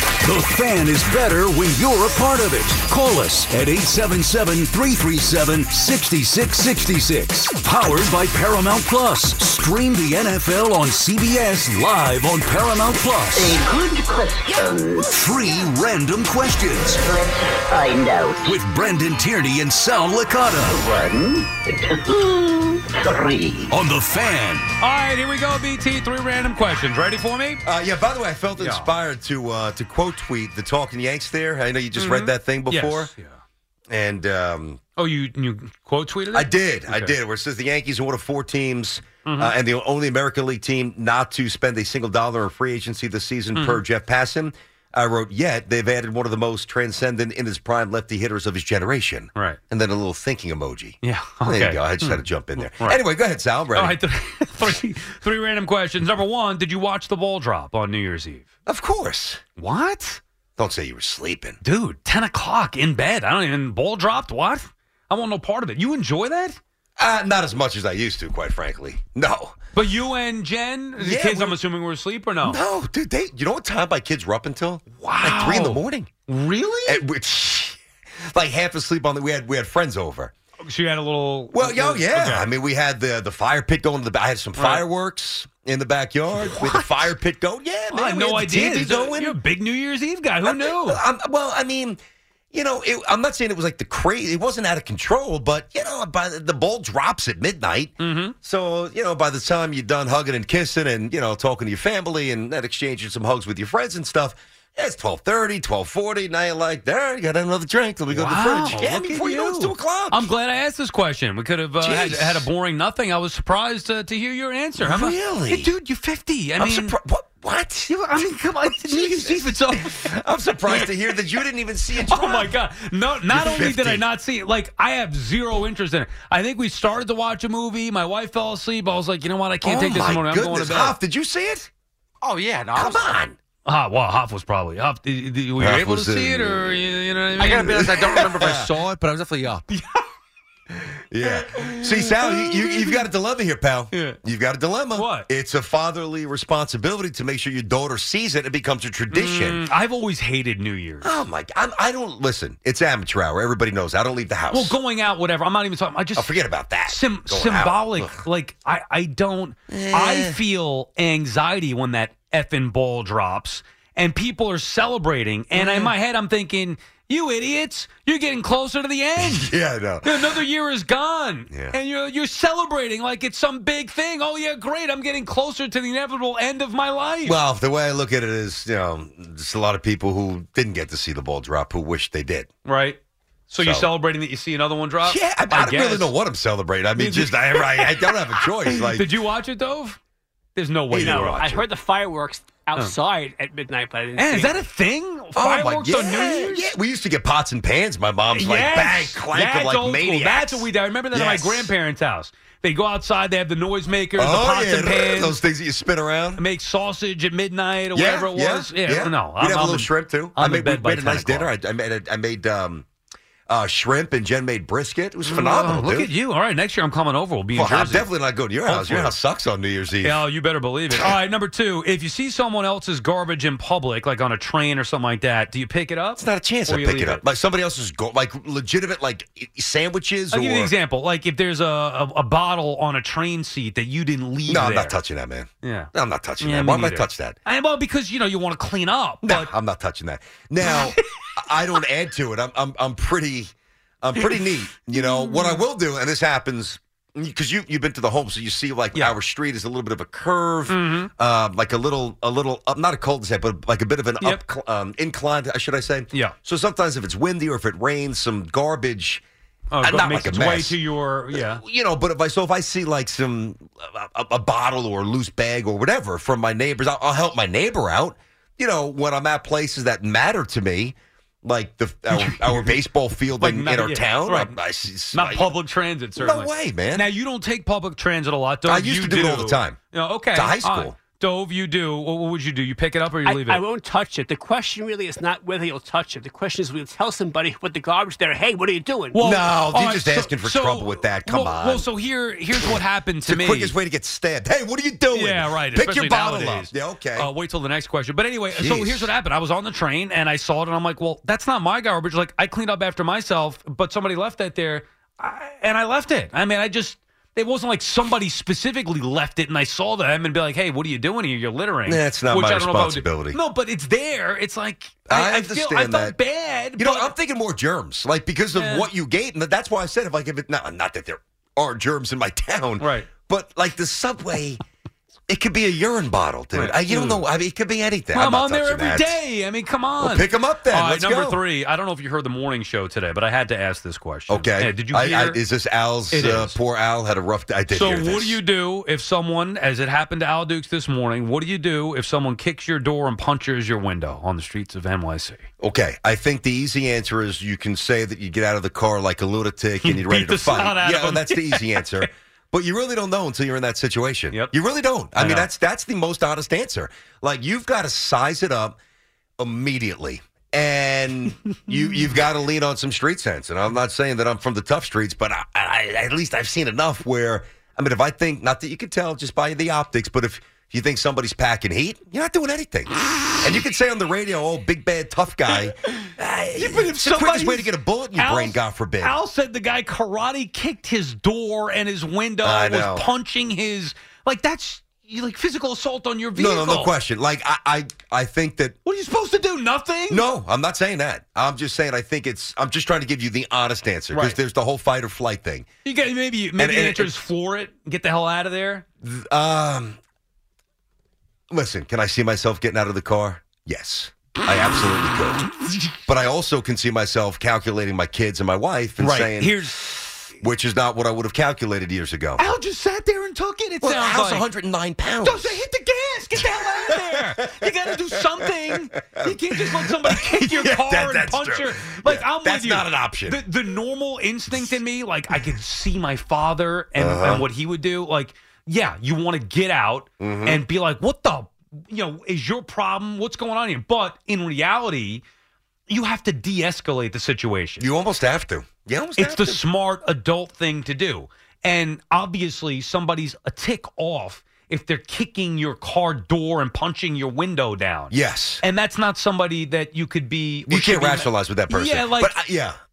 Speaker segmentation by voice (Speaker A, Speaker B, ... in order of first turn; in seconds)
Speaker A: 0.2-13.6, 15.1-17.0, 18.4-20.8, 23.7-24.7
Speaker B: 13.3-15.1, 16.9-18.5, 20.7-23.7
Speaker C: 24.8-27.6, 28.6-28.9, 31.9-33.4, 35.0-37.1, 39.2-39.6, 43.5-43.8, 51.0-53.0, 53.7-58.4, 59.6-60.2, 61.6-66.6, 69.7-72.6, 75.0-77.0, 80.6-82.5, 84.6-84.8, 86.4-87.1, 87.9-91.0, 98.0-98.3, 108.1-116.9, 117.9-120.1, 122.0-130.9, 133.6-138.3, 139.7-140.0, 141.2-143.0, 143.9-144.2, 144.9-145.3, 149.1-151.2, 154.5-156.3, 156.8-169.5, 170.0-177.4, 182.6-183.0, 183.5-186.1, 186.9-190.0, 190.5-191.4, 194.2-196.7, 198.3-205.3, 206.4-211.5, 215.2-218.1, 218.6-219.2, 220.0-227.2, 230.3-235.0, 235.6-239.5, 244.9-245.6, 250.7-251.1, 259.7-261.6, 272.1-272.8, 273.4-274.5, 275.1-283.6, 289.1-293.7, 295.1-317.1, 318.5-318.9, 322.8-323.1, 326.5-327.2, 328.1-335.4, 336.1-336.6, 337.7-345.4, 349.8-352.1, 355.1-355.5, 375.5-386.9, 388.8-390.2, 394.1-394.4, 395.8-398.8, 409.0-410.2, 412.4-414.4, 415.2-435.2, 435.9-437.9, 439.2-452.4
Speaker D: 27.6-33.1, 33.9-34.8, 36.3-54.0, 58.7-59.4, 60.6-61.6, 67.0-69.5, 71.0-71.6, 72.4-76.1, 76.9-80.3, 81.5-89.4, 90.4-92.0, 92.5-110.3, 111.8-112.5, 114.8-115.7, 116.6-122.5, 123.3-124.0, 129.6-131.7, 132.7-133.3, 135.6-136.6, 137.5-138.7, 141.1-149.6, 151.0-154.8, 156.2-158.2, 159.7-160.4, 165.5-165.9, 169.2-170.4, 177.2-182.5, 183.6-183.9, 185.0-189.1, 190.9-191.6, 195.3-201.7, 204.2-206.4, 207.9-212.8, 213.5-216.1, 217.5-220.2, 226.2-230.7, 234.5-237.4, 239.2-259.2, 259.8-260.8, 261.3-275.6, 276.1-277.1, 278.7-279.8, 280.3-281.0, 289.2-291.9, 293.2-297.3, 298.5-299.1, 311.9-313.4, 315.1-316.1, 316.8-324.6, 325.3-329.2, 330.0-331.4, 334.3-338.4, 345.6-358.8, 359.4-379.1, 382.4-383.1, 386.4-388.8, 390.1-395.7, 396.6-397.1, 399.0-400.0, 401.5-405.4, 406.1-409.7, 410.4-412.4, 413.8-415.6, 416.4-417.6, 419.9-423.4, 427.0-427.4, 430.2-430.6, 437.8-439.6, 448.1-448.6, 450.7-452.8
Speaker E: 132.2-133.2, 137.4-139.7
Speaker F: 191.0-194.6, 283.2-289.4